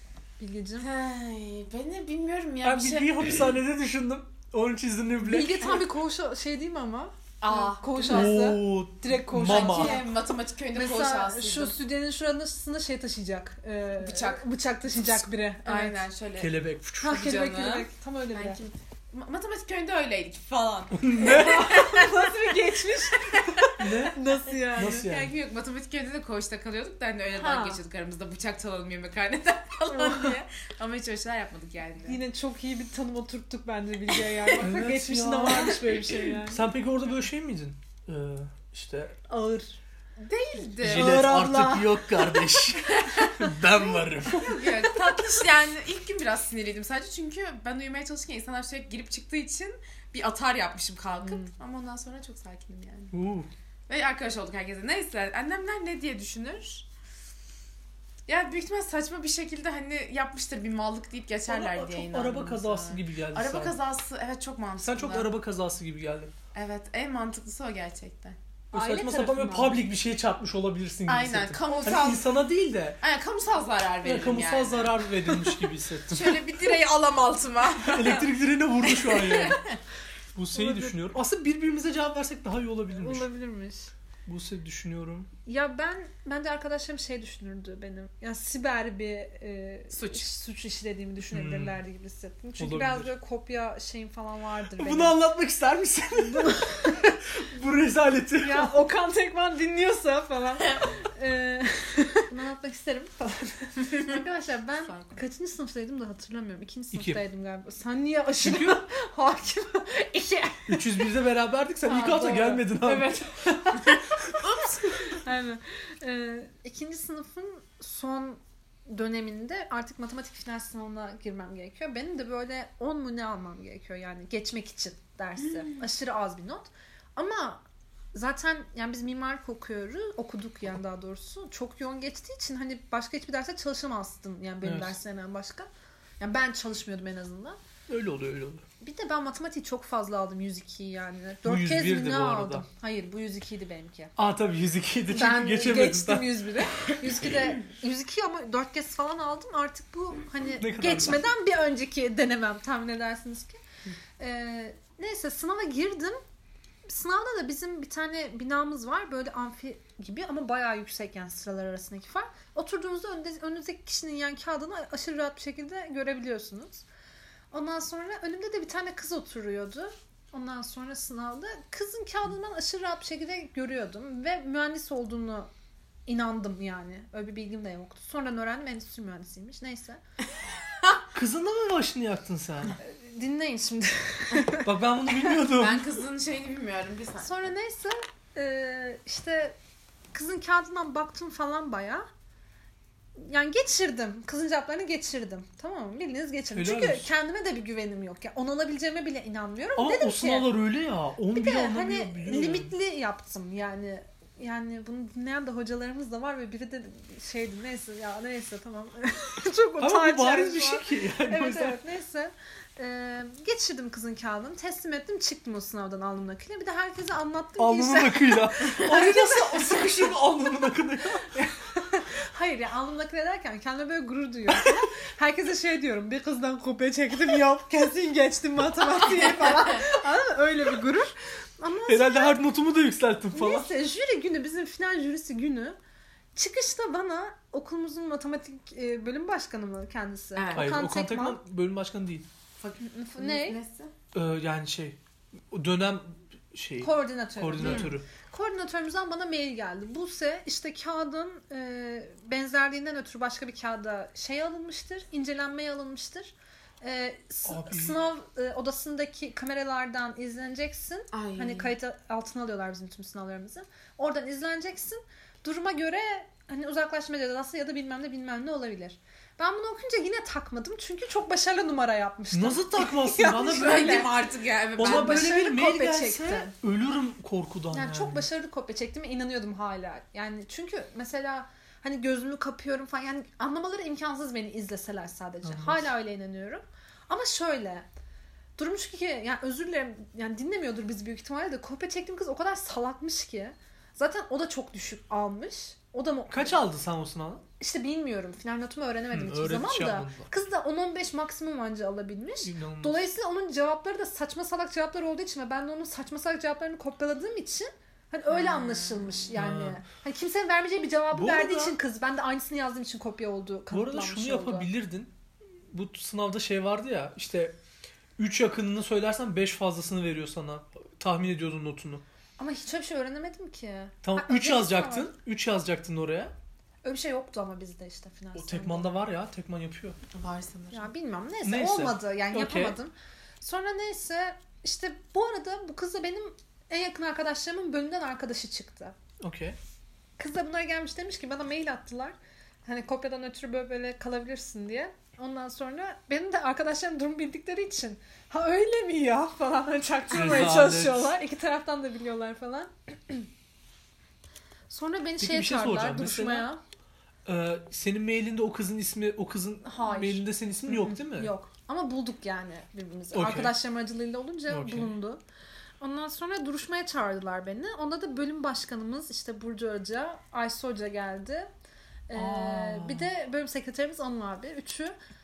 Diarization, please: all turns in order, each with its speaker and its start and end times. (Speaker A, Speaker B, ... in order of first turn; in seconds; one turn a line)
Speaker A: 0.4-0.9
Speaker B: 0.8-3.4
Speaker C: 2.6-5.8
Speaker A: 5.2-10.1
Speaker B: 7.4-8.4
Speaker C: 8.1-10.0
Speaker B: 9.3-11.8
Speaker A: 10.7-16.0
Speaker B: 14.0-23.9
Speaker C: 16.4-17.3
Speaker A: 17.0-18.6
Speaker C: 20.9-21.8
Speaker A: 21.1-25.1
Speaker C: 23.8-25.3
Speaker B: 24.8-32.2
Speaker A: 27.4-27.8
Speaker A: 29.9-30.4
Speaker A: 32.1-36.6
Speaker B: 34.2-34.6
Speaker C: 34.6-39.2
Speaker A: 39.3-39.8
Speaker B: 40.2-41.3
Speaker C: 40.8-44.6
Speaker A: 40.9-42.4
Speaker B: 42.9-43.4
Speaker A: 44.4-44.7
Speaker B: 44.4-53.1
Speaker A: 51.2-51.5
Speaker C: 53.1-53.5
Speaker B: 53.9-56.9
Speaker B: 58.3-65.3
Speaker C: 61.5-63.8
Speaker C: 64.8-66.3
Speaker B: 66.5-68.4
Speaker C: 68.7-73.0
Speaker A: 68.7-69.8
Speaker B: 71.1-72.3
Speaker B: 73.0-74.9
Speaker C: 74.0-76.4
Speaker B: 76.1-78.3
Speaker C: 77.8-79.6
Speaker B: 78.8-79.8
Speaker C: 80.3-83.3
Speaker A: 80.5-81.0
Speaker A: 83.0-83.9
Speaker C: 84.2-85.3
Speaker A: 85.5-95.2
Speaker B: 89.9-90.3
Speaker C: 91.3-91.8
Speaker C: 92.6-93.1
Speaker C: 94.8-98.8
Speaker A: 96.2-97.1
Speaker A: 98.4-111.1
Speaker B: 104.8-105.2
Speaker C: 106.9-107.2
Speaker C: 108.4-108.8
Speaker C: 110.7-114.3
Speaker A: 111.9-114.0
Speaker B: 111.9-112.4
Speaker B: 114.4-115.2
Speaker A: 115.2-127.6
Speaker A: 128.1-135.7
Speaker C: 134.6-135.0
Speaker A: 136.2-137.6
Speaker C: 137.9-138.6
Speaker A: 138.8-144.1
Speaker C: 141.4-142.7
Speaker C: 144.2-146.5
Speaker A: 145.1-153.6
Speaker C: 150.6-151.2
Speaker A: 154.2-156.2
Speaker A: 156.9-166.8
Speaker A: 167.5-175.5
Speaker A: 176.1-180.0
Speaker C: 181.1-182.8
Speaker A: 182.8-184.7
Speaker C: 184.5-186.0
Speaker B: 185.3-187.5
Speaker A: 187.2-189.6
Speaker A: 190.1-192.1
Speaker A: 193.2-200.5
Speaker C: 196.5-197.1
Speaker C: 199.8-202.7
Speaker A: 201.3-220.1
Speaker C: 209.8-211.8
Speaker C: 217.6-221.4
Speaker A: 221.3-232.4
Speaker C: 224.5-224.8
Speaker C: 231.9-233.7
Speaker A: 233.3-235.8
Speaker A: 236.3-241.4
Speaker B: 240.3-240.7
Speaker C: 240.5-242.2
Speaker B: 242.6-243.9
Speaker A: 242.8-243.6
Speaker C: 244.1-245.0
Speaker C: 245.5-248.1
Speaker A: 246.8-274.2
Speaker B: 247.6-247.9
Speaker C: 257.4-258.0
Speaker B: 261.1-261.7
Speaker C: 272.3-274.0
Speaker B: 273.3-275.3
Speaker C: 274.8-278.2
Speaker A: 274.8-276.5
Speaker A: 277.7-287.9
Speaker C: 285.4-285.9
Speaker A: 288.6-296.6
Speaker C: 296.3-297.4
Speaker A: 297.6-314.7
Speaker C: 299.1-300.3
Speaker C: 302.4-303.1
Speaker B: 308.3-309.3
Speaker C: 309.3-309.8
Speaker C: 311.1-311.8
Speaker C: 313.7-315.1
Speaker C: 315.7-317.6
Speaker C: 318.2-322.0
Speaker A: 322.4-325.1
Speaker C: 324.0-326.3
Speaker A: 326.8-328.9
Speaker C: 328.4-330.0
Speaker B: 330.1-330.9
Speaker A: 330.7-339.0
Speaker C: 331.4-332.8
Speaker C: 339.2-339.6
Speaker A: 340.2-353.3
Speaker C: 350.1-351.1
Speaker A: 354.7-356.6
Speaker C: 355.2-356.5
Speaker C: 357.2-361.3
Speaker A: 359.6-365.2
Speaker C: 363.1-363.6
Speaker C: 364.5-364.9
Speaker A: 365.8-371.5
Speaker A: 372.1-374.9
Speaker C: 372.1-373.1